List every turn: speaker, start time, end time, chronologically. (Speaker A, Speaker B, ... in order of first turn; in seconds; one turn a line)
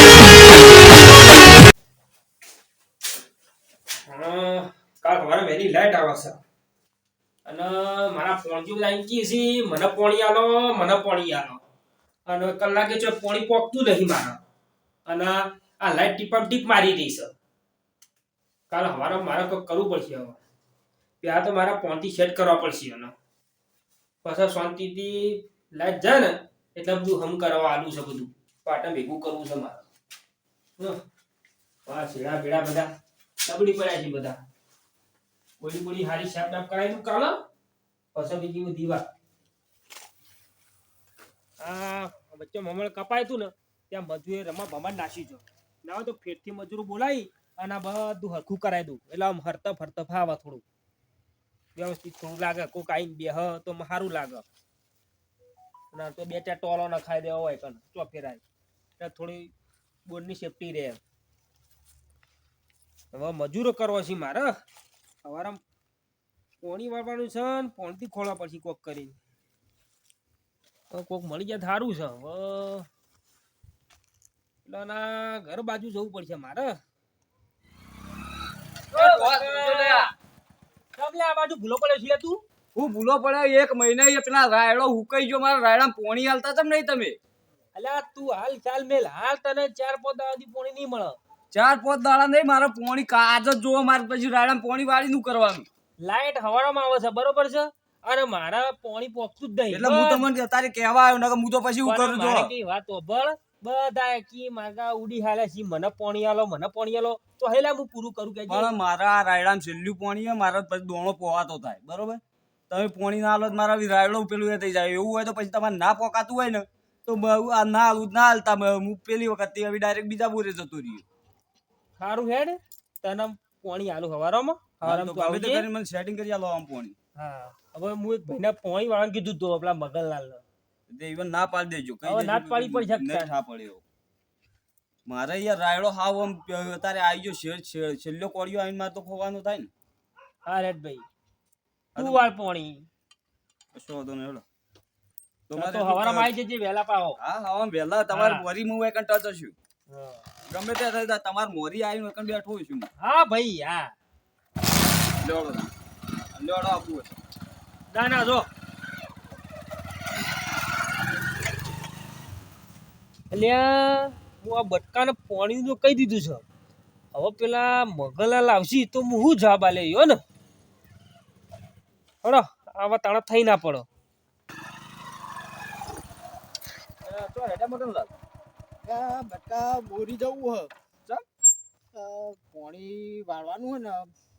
Speaker A: 4.0-6.4
Speaker A: 7.4-11.6
Speaker A: 12.2-14.4
Speaker A: 15.1-17.3
Speaker A: 18.7-20.4
Speaker A: 21.2-23.1
Speaker A: 24.2-29.8
Speaker A: 31.9-32.9
Speaker A: 33.4-34.4
Speaker A: 35.6-37.4
Speaker A: 38.1-39.0
Speaker A: 41.6-50.6
Speaker A: 51.7-54.4
Speaker A: 55.9-58.4
Speaker A: 59.0-59.5
Speaker A: 60.0-61.0
Speaker A: 63.1-64.5
Speaker A: 65.2-65.6
Speaker A: 66.6-69.2
Speaker A: 70.9-72.9
Speaker A: 74.6-76.8
Speaker B: 78.9-80.1
Speaker A: 78.9-80.0
Speaker A: 81.0-82.4
Speaker B: 82.7-87.2
Speaker A: 87.7-91.1
Speaker B: 91.5-95.7
Speaker A: 96.0-100.2
Speaker B: 99.7-102.5
Speaker A: 101.8-108.7
Speaker B: 108.5-121.0
Speaker A: 122.0-125.7
Speaker B: 124.8-126.9
Speaker A: 127.2-130.4
Speaker B: 130.9-133.8
Speaker A: 132.0-133.3
Speaker B: 135.1-139.7
Speaker A: 140.4-141.1
Speaker B: 141.9-142.2
Speaker A: 141.9-142.8
Speaker B: 143.7-144.4
Speaker B: 145.5-146.3
Speaker A: 145.5-147.2
Speaker B: 147.2-149.5
Speaker A: 148.1-148.4
Speaker A: 149.9-150.2
Speaker B: 150.5-152.9
Speaker A: 153.0-153.9
Speaker B: 155.2-155.7
Speaker B: 156.3-157.2
Speaker A: 157.9-158.5
Speaker A: 163.3-166.4
Speaker A: 167.1-170.2
Speaker A: 172.2-173.8
Speaker B: 177.0-178.1
Speaker C: 178.8-180.7
Speaker C: 181.9-184.1